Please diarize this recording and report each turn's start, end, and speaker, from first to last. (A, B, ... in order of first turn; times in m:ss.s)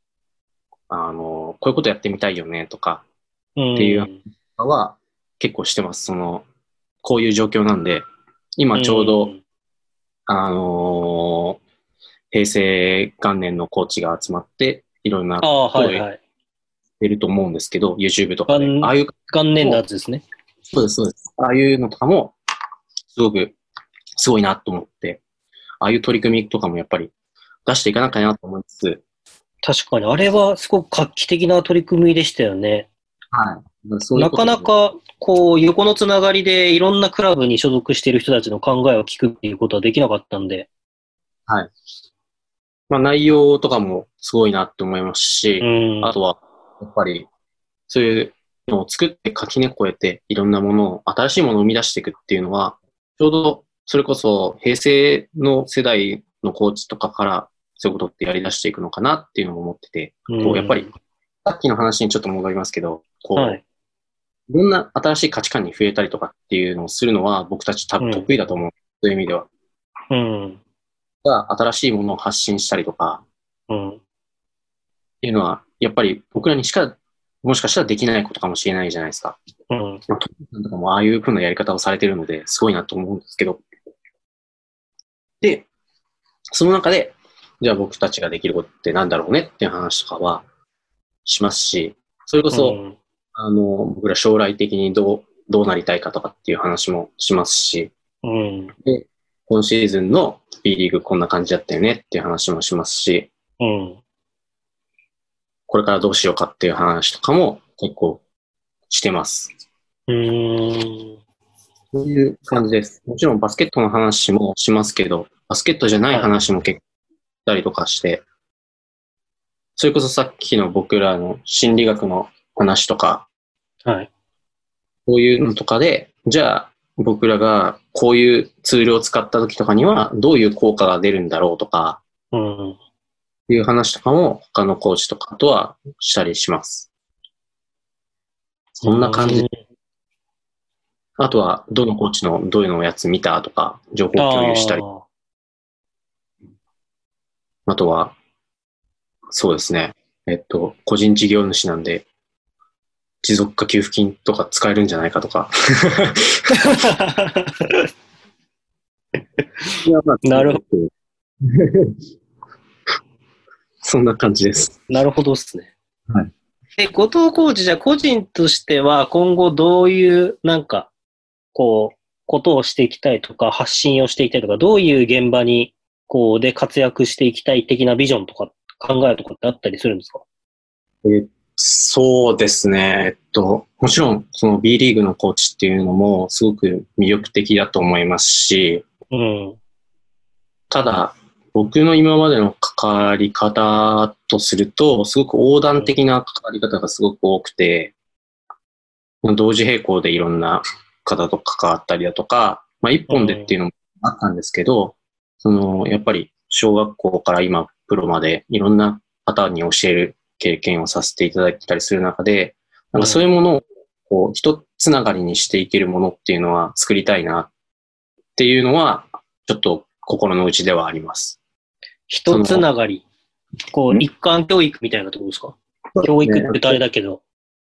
0:00.9-0:03.0 A
0:03.6-0:04.2 B
0:03.8-0:06.5 A
0:07.0-0:08.0 A
0:08.6-0:09.3 A
0:08.7-0:09.4 B
0:10.3-0:11.6 A
0:12.3-0:16.1 A
0:15.4-0:16.2 B
0:17.0-0:19.8 A
0:18.5-0:20.2 B
0:20.7-0:22.4 A
0:23.1-0:23.6 A
0:24.2-0:25.2 A
0:25.8-0:27.1 A
0:27.7-0:29.0 A
0:29.6-0:32.9 B
0:33.3-0:34.7 A
0:34.2-0:40.7 B
0:42.9-0:47.3 A
0:45.6-0:46.1 B
0:47.9-1:00.9 A
1:00.3-1:00.9 B
1:01.4-1:03.6 A
1:03.4-1:03.6 B
1:04.5-1:09.5 A
1:08.0-1:08.3 B
1:10.1-1:10.6 B
1:11.2-1:13.2 A
1:13.7-1:14.0 B
1:15.2-1:19.4 A
1:19.7-1:20.0 B
1:20.1-1:23.6 A
1:25.4-1:25.7 A
1:26.5-1:30.4 A
1:31.2-1:32.8 A
1:32.5-1:33.0 B
1:33.4-1:37.9 A
1:38.2-1:38.7 B
1:38.8-1:43.3 A
1:43.6-1:44.0 B
1:45.7-1:48.2 A
1:48.9-1:49.5 A
1:50.1-1:51.2 B
1:51.9-1:56.8 A
1:57.5-1:58.2 A
1:59.8-2:03.3 A
2:05.1-2:12.0 A
2:12.3-2:12.8 B
2:13.5-2:16.9 A
2:18.8-2:19.5 A
2:18.8-2:19.6 B
2:21.2-2:24.8 A
2:24.2-2:25.0 B
2:27.7-2:28.2 A
2:29.3-2:32.1 A
2:33.2-2:36.5 A
2:36.6-2:37.9 B
2:39.7-2:40.9 A
2:40.2-2:40.6 B
2:41.4-2:42.0 A
2:43.8-2:44.8 A
2:44.9-2:45.7 B
2:46.8-2:50.9 B
2:51.5-3:00.2 B
3:01.0-3:08.8 A
3:09.1-3:09.6 B
3:10.7-3:17.9 A
3:19.2-3:37.5 A
3:23.1-3:23.5 B
3:33.0-3:33.2 B
3:38.4-3:41.4 A
3:42.1-3:43.0 B
3:42.3-3:42.7 A
3:43.7-3:47.2 B
3:45.9-3:46.8 A